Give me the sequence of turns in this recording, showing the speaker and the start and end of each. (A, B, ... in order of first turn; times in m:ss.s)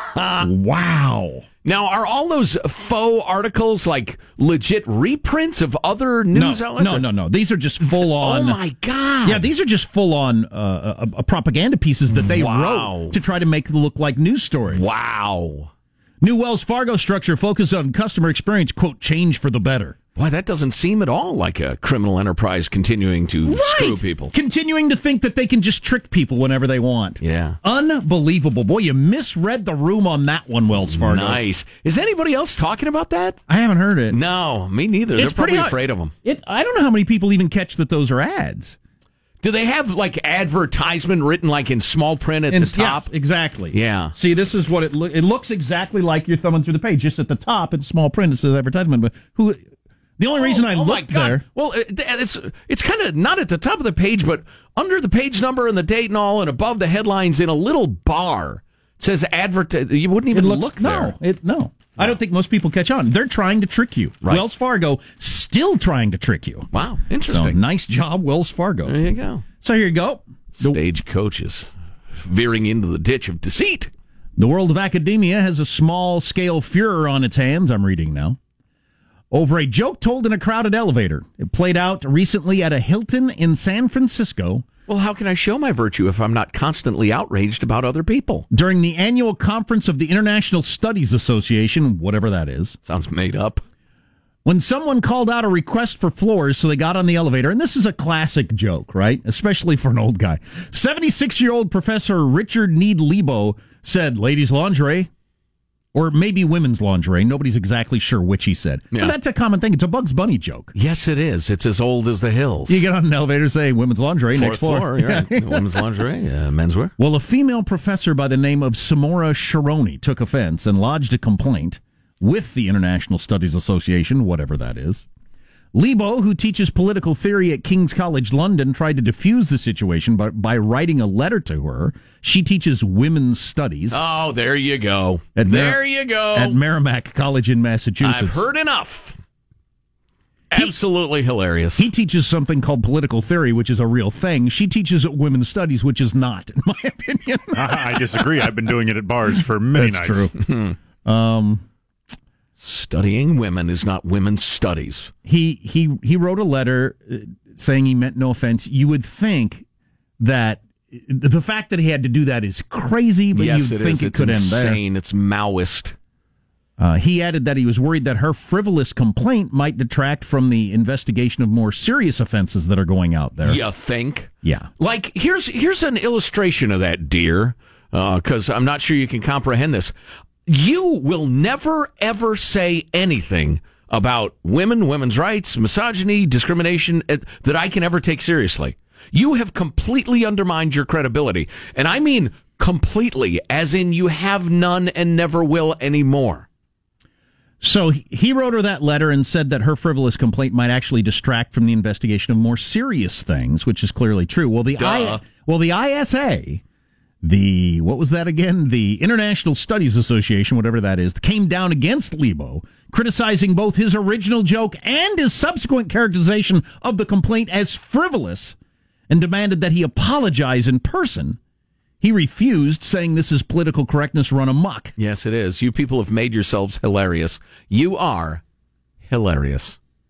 0:00.1-0:00.5 A
0:00.4-0:01.4 B
0:01.6-0:07.0 A
0:06.3-0:08.6 B
0:07.8-0:09.5 A
0:09.2-0:14.9 B
0:12.1-0:13.2 A
0:14.7-0:15.7 A
0:16.2-0:20.0 B
0:20.2-0:24.3 A
0:23.4-0:31.4 B
0:27.2-0:27.6 A
0:30.9-0:33.4 A
0:33.5-0:34.2 B
0:34.1-0:36.1 A
0:35.2-0:38.8 B
0:39.4-0:43.1 A
0:42.5-0:49.6 B
0:43.7-0:44.1 A
0:50.2-0:51.4 B
0:50.3-1:01.1 A
1:00.3-1:06.7 B
1:06.7-1:07.6 A
1:07.2-1:09.0 B
1:08.8-1:09.4 A
1:09.6-1:10.8 B
1:10.6-1:13.9 A
1:14.4-1:18.4 B
1:19.3-1:24.6 B
1:24.9-1:28.4 A
1:28.5-1:32.8 B
1:32.8-1:33.6 A
1:34.4-1:45.1 B
1:45.9-1:50.7 B
1:50.7-1:52.8 A
1:52.7-1:55.9 B
1:54.3-1:56.9 A
1:57.0-2:05.1 B
2:05.7-2:14.0 B
2:13.9-2:16.6 A
2:15.4-2:18.4 B
2:18.0-2:19.2 A
2:20.5-2:21.8 A
2:21.8-2:28.7 B
2:27.5-2:30.3 C
2:29.3-2:30.5 B
2:30.5-2:30.7 A
2:31.0-2:31.6 B
2:32.6-2:35.1 A
2:35.2-2:39.6 B
2:40.2-2:44.8 B
2:43.3-2:46.0 A
2:46.8-2:53.6 B
2:53.4-2:59.9 A
2:54.4-2:54.7 B
3:00.5-3:16.5 A
3:17.6-3:26.6 B
3:24.8-3:25.2 A
3:27.2-3:38.6 B
3:39.1-3:41.4 B
3:42.0-3:44.9 B
3:45.0-3:48.4 A
3:49.0-3:49.8 A